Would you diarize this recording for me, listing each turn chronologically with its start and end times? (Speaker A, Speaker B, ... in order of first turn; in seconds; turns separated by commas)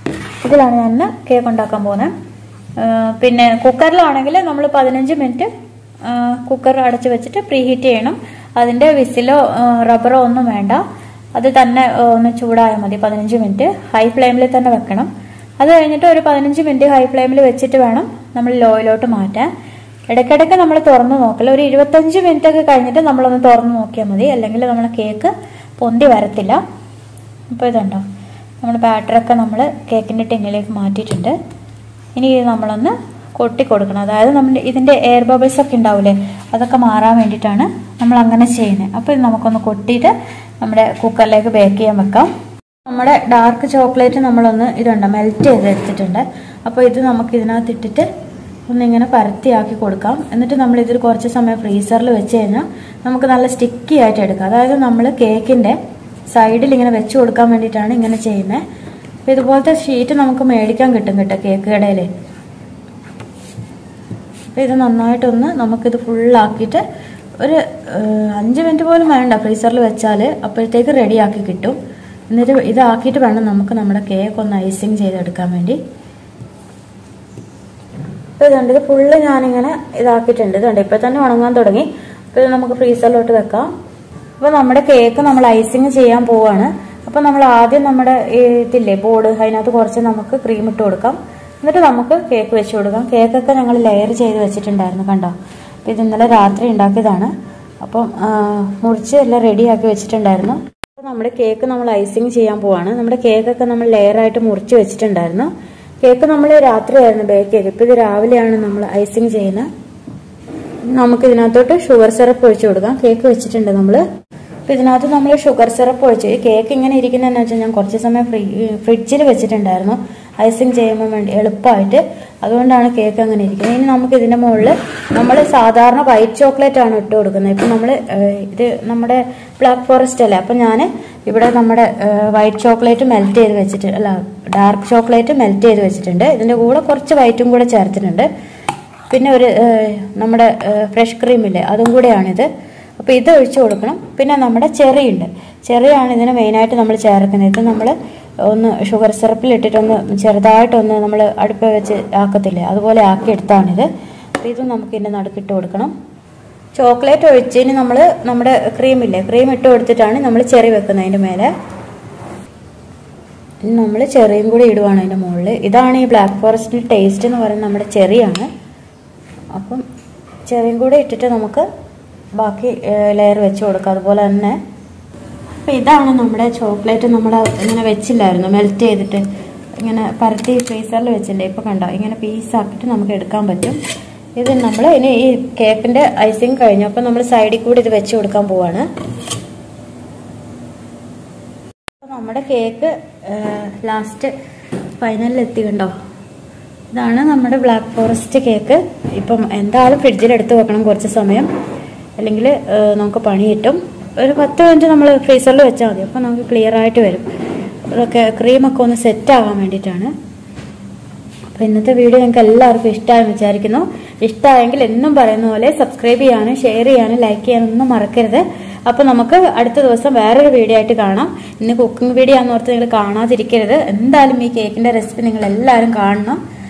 Speaker A: 0.4-2.1, Speaker A: 2.8-5.5, Speaker A: 6.0-10.8, Speaker A: 11.3-19.5, Speaker A: 20.1-26.6, Speaker A: 27.5-28.0, Speaker A: 28.6-31.3, Speaker A: 32.1-42.3, Speaker A: 42.9-48.0, Speaker A: 48.7-55.8, Speaker A: 56.3-58.6, Speaker A: 59.2-62.1, Speaker A: 64.5-66.8, Speaker A: 67.4-71.8, Speaker A: 72.3-75.8, Speaker A: 78.4-83.7, Speaker A: 84.4-95.3, Speaker A: 95.8-105.5, Speaker A: 106.0-109.7, Speaker A: 110.9-114.0, Speaker A: 114.7-138.3, Speaker A: 139.1-142.5, Speaker A: 143.0-147.9, Speaker A: 148.5-153.9, Speaker A: 154.4-155.9, Speaker A: 156.7-161.5, Speaker A: 163.7-168.5, Speaker A: 169.5-169.8, Speaker A: 170.4-171.7, Speaker A: 172.4-174.6, Speaker A: 175.6-179.2, Speaker A: 179.8-183.8, Speaker A: 184.4-188.8, Speaker A: 192.0-194.3, Speaker A: 195.0-195.9, Speaker A: 196.9-201.5, Speaker A: 202.2-207.3, Speaker A: 207.9-210.1, Speaker A: 211.5-226.4